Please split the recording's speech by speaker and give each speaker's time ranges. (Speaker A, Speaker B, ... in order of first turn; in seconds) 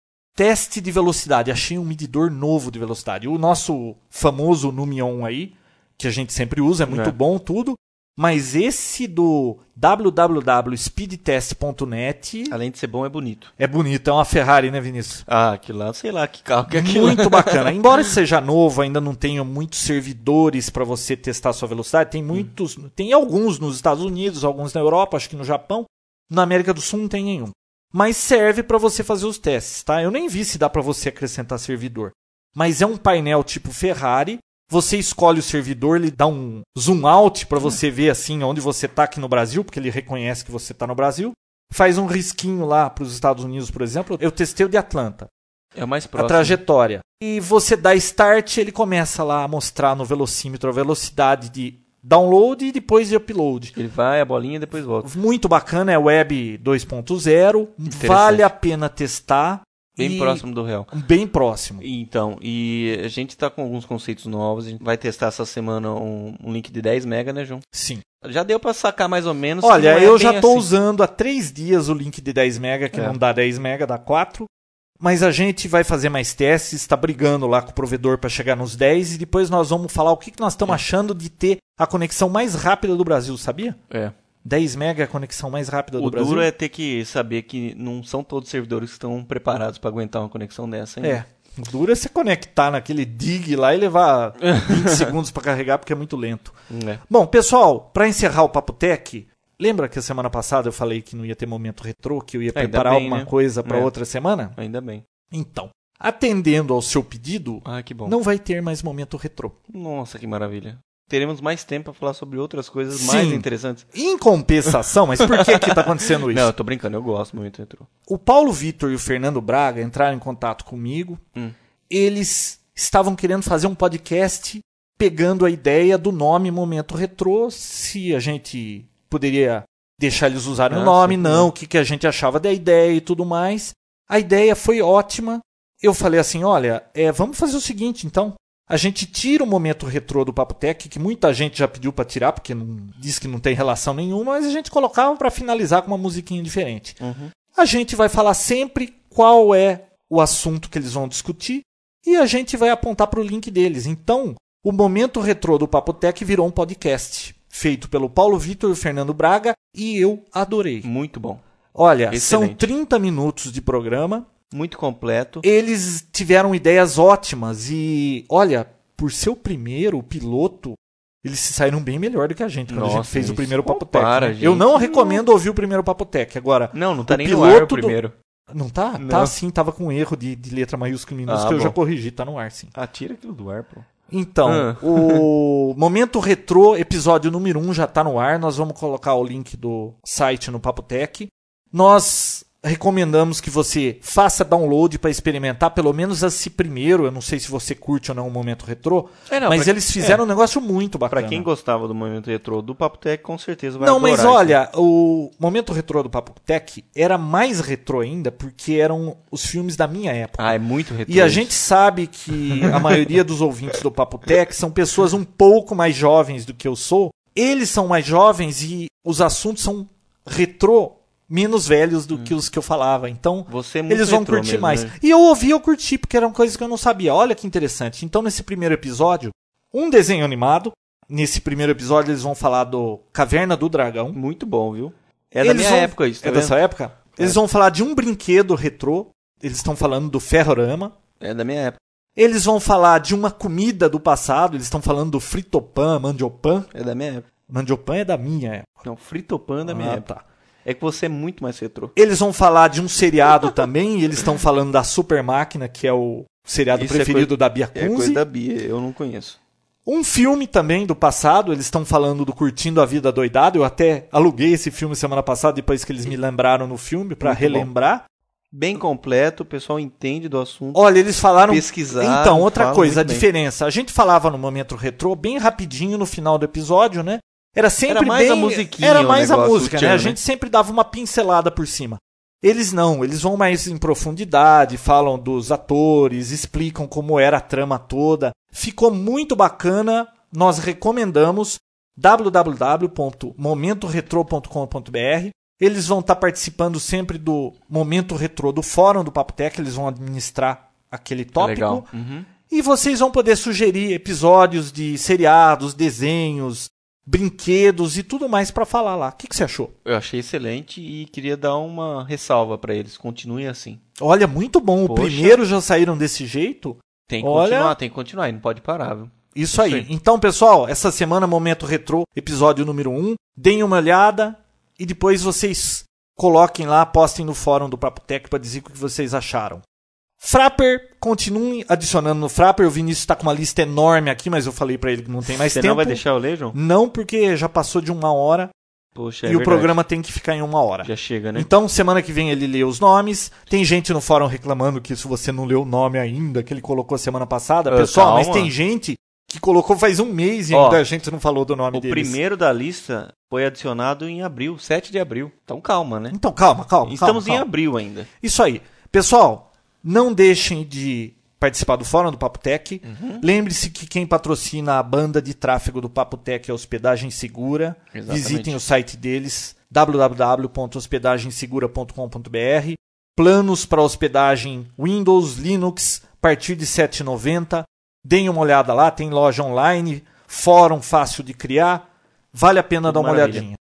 Speaker A: 0.4-12.5, 13.6-15.2, 16.7-45.3, 46.2-53.7, 55.0-61.8, 67.7-68.0, 69.6-74.5, 75.0-83.8, 84.4-86.5, 91.0-96.6, 97.1-104.6, 105.3-109.6, 112.9-116.5, 118.1-121.2, 121.9-147.0, 147.5-160.9, 161.7-164.3, 165.4-178.0, 178.5-182.7, 184.1-201.5, 203.8-234.2, 235.4-240.9, 242.2-246.7, 247.5-248.8, 249.6-250.2, 251.9-258.2, 259.9-268.1, 270.7-301.9, 302.5-309.7, 314.0-317.7, 319.4-329.6, 330.2-336.0, 336.5-338.5, 339.3-352.2, 356.1-357.5, 358.2-383.6
Speaker B: 6.9-7.1, 12.5-13.5, 15.3-17.7, 45.7-46.6, 53.7-55.1, 57.9-58.5, 60.0-60.9, 61.8-67.6, 68.2-70.7, 83.9-84.1, 86.0-91.2, 94.5-95.1, 96.7-97.0, 102.5-103.9, 104.6-105.0, 107.6-108.2, 109.7-113.9, 114.6-117.9, 130.7-131.5, 147.0-147.3, 160.8-161.4, 162.1-162.6, 164.5-165.4, 172.7-175.2, 176.7-178.1, 178.9-179.3, 181.3-181.8, 182.7-183.9, 184.4-185.3, 199.3-200.2, 201.1-204.6, 210.4-211.5, 212.5-213.0, 223.5-224.9, 234.1-236.6, 241.2-241.8, 246.7-247.3, 248.8-250.1, 250.6-251.9, 256.7-259.4, 267.2-267.7, 268.5-270.8, 271.5-273.3, 277.9-280.2, 301.4-302.3, 309.9-313.8, 314.9-315.4, 317.1-319.9, 335.3-336.6, 338.9-339.7, 340.8-341.5, 347.7-348.5, 350.5-350.8, 351.7-356.2, 356.8-358.1, 362.8-363.2, 367.9-368.6, 382.9-383.5